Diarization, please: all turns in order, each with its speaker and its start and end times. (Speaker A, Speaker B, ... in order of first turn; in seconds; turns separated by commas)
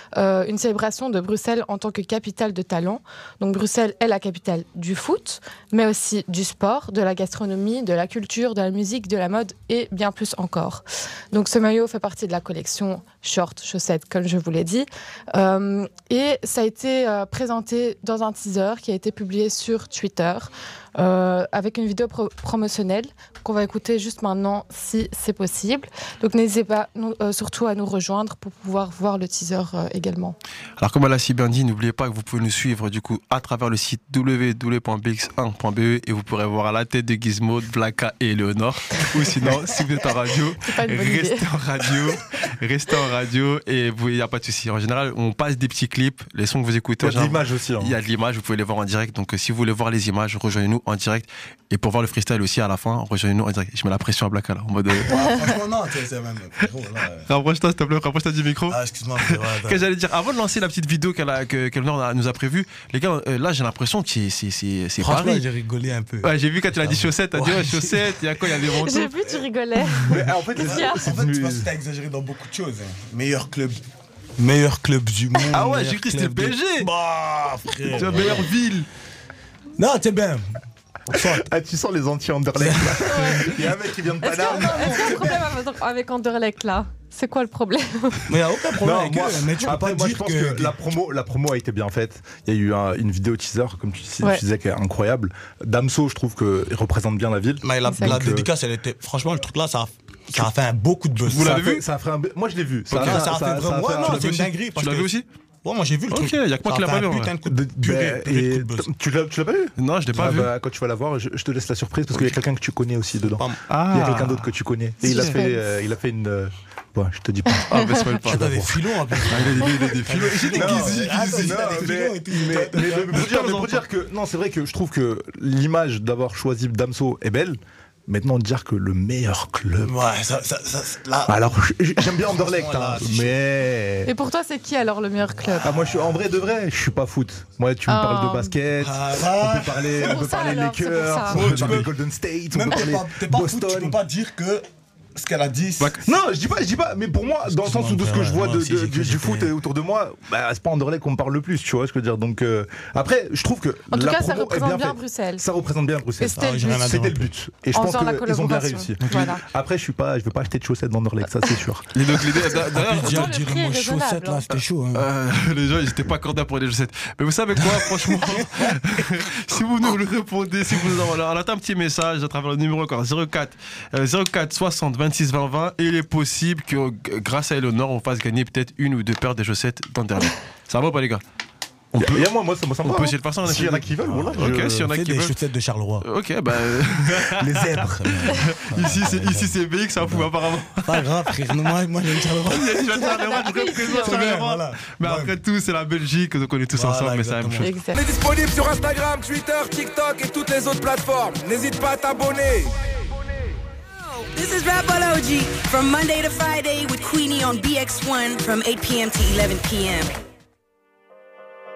Speaker A: 0.1-30.4, Speaker B: 30.8-55.3, Speaker A: 40.7-41.5, Speaker C: 47.0-48.0, Speaker D: 55.0-57.3, Speaker B: 57.3-65.5, Speaker D: 58.7-59.9, Speaker D: 65.0-68.2, Speaker B: 66.2-69.3, Speaker A: 68.6-71.1, Speaker D: 69.8-73.8, Speaker C: 70.1-71.7, Speaker D: 74.4-78.5, Speaker B: 75.5-76.9, Speaker B: 77.8-78.9, Speaker D: 79.8-80.6, Speaker D: 81.1-81.4, Speaker C: 81.1-85.4, Speaker D: 82.6-83.6, Speaker A: 83.1-83.7, Speaker A: 84.2-88.3, Speaker D: 84.3-85.5, Speaker D: 88.3-90.8, Speaker C: 88.8-98.5, Speaker D: 97.6-101.8, Speaker A: 97.9-98.2, Speaker B: 101.2-101.9, Speaker C: 101.3-104.3, Speaker B: 102.9-103.3, Speaker D: 102.9-108.9, Speaker B: 104.0-105.3, Speaker B: 106.1-107.4, Speaker C: 107.5-118.8, Speaker B: 109.8-110.5, Speaker D: 110.2-110.5, Speaker D: 113.3-114.2, Speaker B: 113.7-114.5, Speaker A: 115.0-115.6, Speaker B: 115.0-115.4, Speaker B: 117.7-118.5, Speaker D: 118.2-123.3, Speaker B: 119.2-121.8, Speaker C: 120.5-130.0, Speaker B: 123.1-123.8, Speaker D: 129.8-133.3, Speaker C: 131.3-134.1, Speaker A: 134.1-135.8, Speaker C: 135.6-144.0, Speaker A: 137.9-138.6, Speaker D: 138.8-140.3, Speaker A: 140.0-141.5, Speaker D: 141.3-141.9, Speaker D: 142.5-146.0, Speaker B: 145.8-146.1, Speaker C: 146.0-161.9, Speaker D: 147.4-149.5, Speaker A: 153.9-155.4, Speaker A: 156.2-157.0, Speaker D: 156.3-157.3, Speaker A: 157.7-159.4, Speaker B: 161.9-163.3, Speaker D: 162.5-165.1, Speaker A: 162.9-164.5, Speaker B: 164.6-181.2, Speaker D: 167.6-168.7, Speaker C: 181.9-184.8, Speaker B: 181.9-182.2, Speaker B: 182.8-185.3, Speaker D: 184.2-186.1, Speaker B: 186.0-191.7, Speaker C: 187.3-188.2, Speaker D: 187.8-190.3, Speaker D: 190.8-195.3, Speaker B: 192.3-197.7, Speaker A: 192.9-194.3, Speaker D: 196.7-197.7, Speaker A: 197.6-198.0, Speaker E: 197.9-202.7, Speaker F: 204.2-210.2